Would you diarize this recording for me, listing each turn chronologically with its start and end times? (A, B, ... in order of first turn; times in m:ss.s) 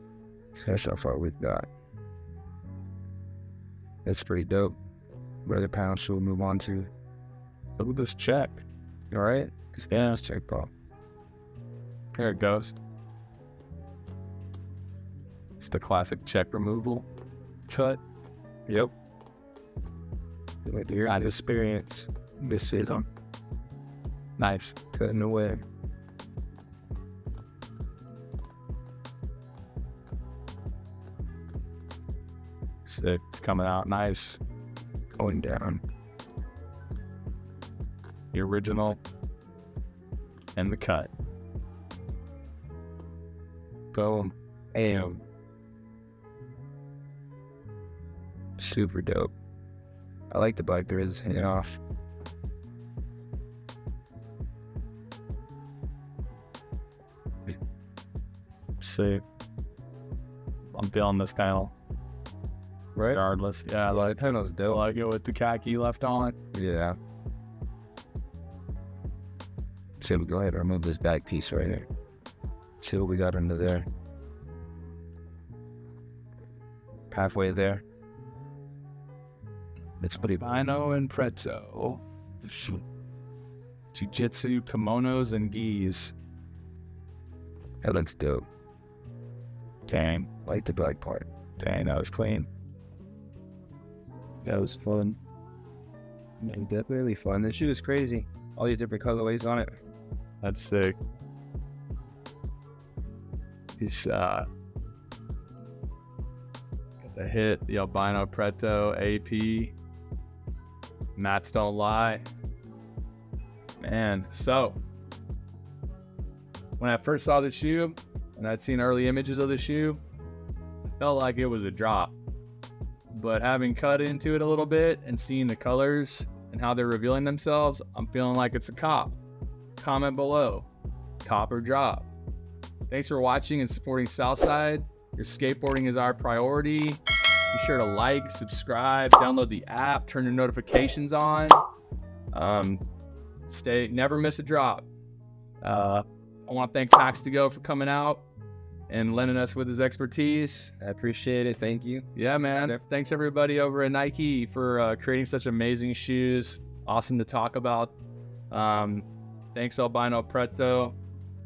0:00.6-0:01.7 A
0:04.0-0:04.8 A
0:05.4-0:06.9 A
0:07.8-0:08.6 B
0:09.1-0:10.7 A
0:12.1-0:12.7 B
0:15.6-0:17.1 B
0:17.7-0:18.0 B
0:18.7-0:18.9 A
0:20.6-0:23.1 A
0:21.0-0:21.4 B
0:24.4-0:24.8 B
0:24.9-0:25.6 A
0:32.8-0:34.4 B
0:35.2-0:35.8 A
0:38.3-0:39.0 B
0:40.5-0:41.1 B
0:43.9-0:45.2 A
0:48.6-0:49.3 A
0:50.3-0:51.8 A
0:58.8-0:59.2 B
1:00.7-1:01.7 B
1:02.9-1:03.2 A
1:03.1-1:04.1 B
1:03.9-1:04.8 A
1:04.7-1:06.3 B
1:06.5-1:07.0 A
1:10.0-1:11.9 A
1:12.8-1:13.9 A
1:17.1-1:17.8 A
1:20.0-1:20.4 A
1:20.2-1:22.8 B
1:23.9-1:26.1 B
1:27.8-1:28.5 A
1:29.9-1:30.3 B
1:30.4-1:31.3 A
1:31.6-1:32.5 B
1:34.4-1:35.2 B
1:36.4-1:39.8 A
1:40.4-1:41.0 B
1:43.8-1:44.4 B
1:47.0-1:49.7 B
1:51.2-1:52.3 B
1:53.8-1:54.8 B
1:56.8-2:00.0 B
2:01.0-2:02.1 B
2:03.1-2:09.2 B
2:09.8-2:10.7 B
2:11.2-2:12.1 B
2:12.9-2:21.6 B
2:22.3-2:22.8 B
2:23.5-2:24.9 B
2:25.6-2:28.2 B
2:28.9-2:30.7 B
2:30.8-2:32.8 A
2:32.1-2:37.9 B
2:38.5-2:41.0 B